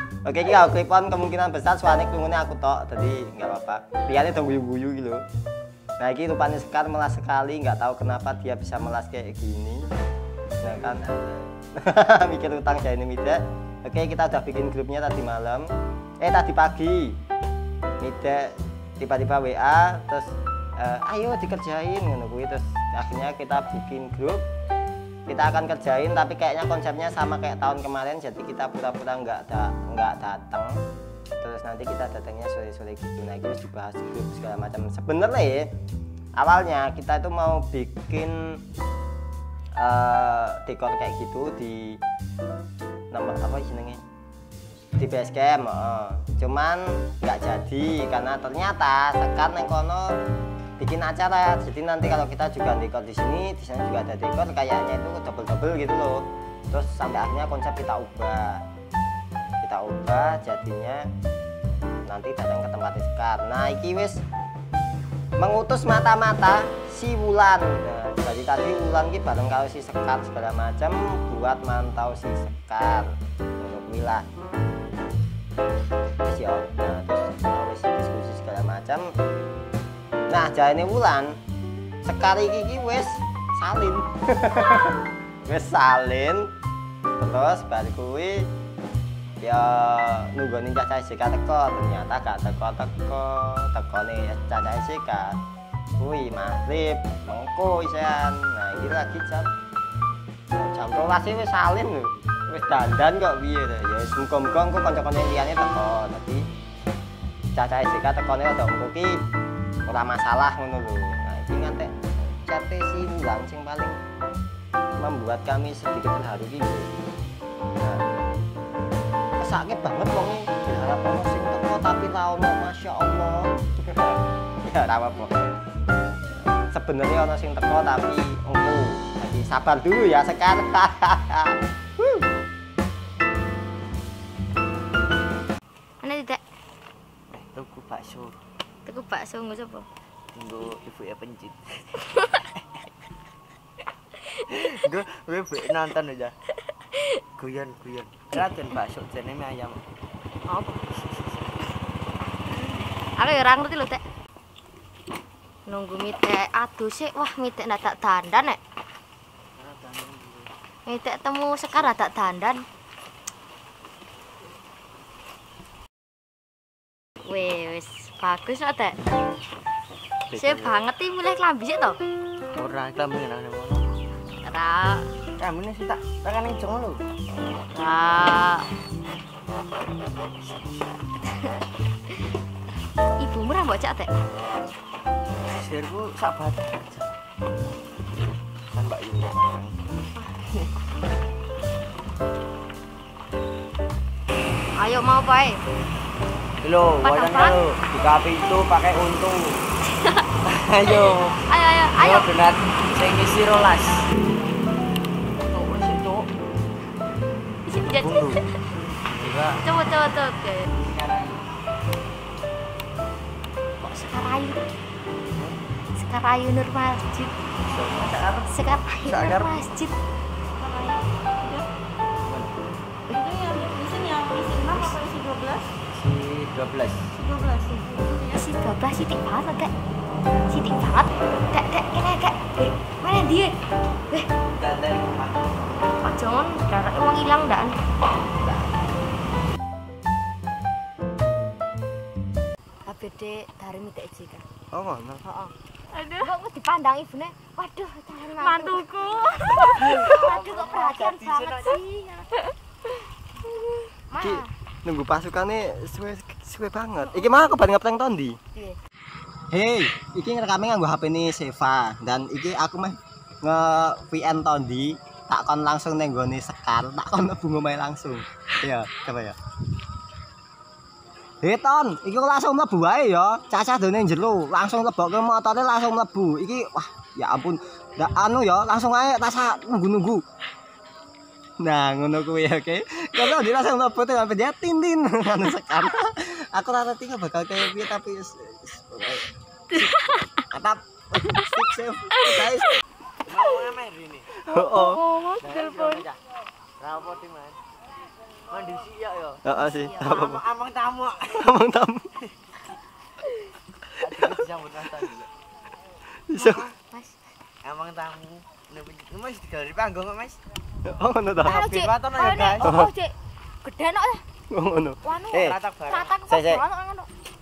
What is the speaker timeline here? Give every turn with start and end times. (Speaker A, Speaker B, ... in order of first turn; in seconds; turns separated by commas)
Speaker A: 0.2-5.2, Speaker A: 6.0-9.9, Speaker A: 10.6-15.7, Speaker A: 16.2-17.2, Speaker A: 18.0-24.4, Speaker A: 25.3-30.8, Speaker A: 31.4-35.7, Speaker A: 36.4-38.6, Speaker A: 39.8-42.0, Speaker A: 43.1-44.0, Speaker A: 45.0-50.1, Speaker A: 50.8-58.6, Speaker A: 59.6-61.1, Speaker A: 62.1-64.2, Speaker A: 65.4-74.2, Speaker A: 76.2-79.1, Speaker A: 80.3-81.3, Speaker A: 82.0-86.5, Speaker A: 87.2-88.5, Speaker A: 89.4-95.4, Speaker A: 96.0-99.5, Speaker A: 100.5-106.5, Speaker A: 107.5-109.2, Speaker A: 109.9-111.9, Speaker A: 112.5-114.0, Speaker A: 115.0-117.1, Speaker A: 119.4-125.4, Speaker A: 126.6-132.3, Speaker B: 136.0-136.4, Speaker C: 137.3-138.4, Speaker B: 138.9-139.9, Speaker C: 140.3-142.0, Speaker C: 144.5-146.3, Speaker C: 147.4-149.8, Speaker B: 150.5-150.8, Speaker C: 150.9-151.3, Speaker B: 152.5-154.0, Speaker B: 155.7-158.6, Speaker C: 159.6-160.5, Speaker B: 160.9-162.6, Speaker B: 167.3-169.0, Speaker C: 170.3-170.8, Speaker B: 170.3-172.0, Speaker C: 172.6-173.9, Speaker B: 174.4-175.1, Speaker C: 175.4-177.0, Speaker B: 177.7-178.6, Speaker B: 181.3-181.6, Speaker B: 183.2-184.1, Speaker C: 185.5-187.2, Speaker C: 188.7-189.8, Speaker B: 194.8-195.6, Speaker C: 196.6-199.7, Speaker B: 197.0-197.6, Speaker C: 200.4-201.4, Speaker B: 200.9-202.3, Speaker C: 202.0-204.1, Speaker C: 205.5-206.3, Speaker B: 207.7-208.4, Speaker C: 207.9-209.6, Speaker B: 209.6-210.7, Speaker C: 210.8-211.4, Speaker B: 213.8-214.6, Speaker B: 216.0-217.3, Speaker C: 217.7-219.7, Speaker B: 218.5-219.9, Speaker D: 220.6-221.6, Speaker C: 222.2-222.5, Speaker D: 223.1-225.6, Speaker C: 225.9-227.1, Speaker D: 227.2-228.3, Speaker B: 228.2-229.7, Speaker B: 230.5-233.5, Speaker C: 234.5-235.5, Speaker B: 236.0-237.7, Speaker B: 242.9-244.4, Speaker A: 244.7-245.2, Speaker B: 245.2-245.5, Speaker D: 245.9-246.3, Speaker B: 246.2-252.2, Speaker D: 248.4-250.2, Speaker C: 249.3-251.8, Speaker B: 254.1-254.5, Speaker A: 254.2-258.4, Speaker A: 259.5-269.4, Speaker A: 271.4-280.2, Speaker A: 281.6-289.8, Speaker A: 290.5-292.8, Speaker C: 293.2-294.3, Speaker A: 294.4-295.0, Speaker D: 294.7-296.0, Speaker C: 295.4-296.2, Speaker C: 296.8-297.6, Speaker C: 298.5-299.4, Speaker A: 299.4-300.4, Speaker B: 299.5-300.1, Speaker C: 300.0-301.6, Speaker A: 301.3-302.2, Speaker C: 304.0-305.3, Speaker A: 306.3-306.7, Speaker B: 306.4-307.2, Speaker C: 307.6-310.4, Speaker A: 310.9-311.6, Speaker C: 311.4-312.7, Speaker B: 311.5-314.2, Speaker A: 312.6-312.9, Speaker A: 314.5-315.6, Speaker B: 315.1-315.3, Speaker C: 315.3-316.2, Speaker B: 315.9-317.1, Speaker A: 316.3-316.6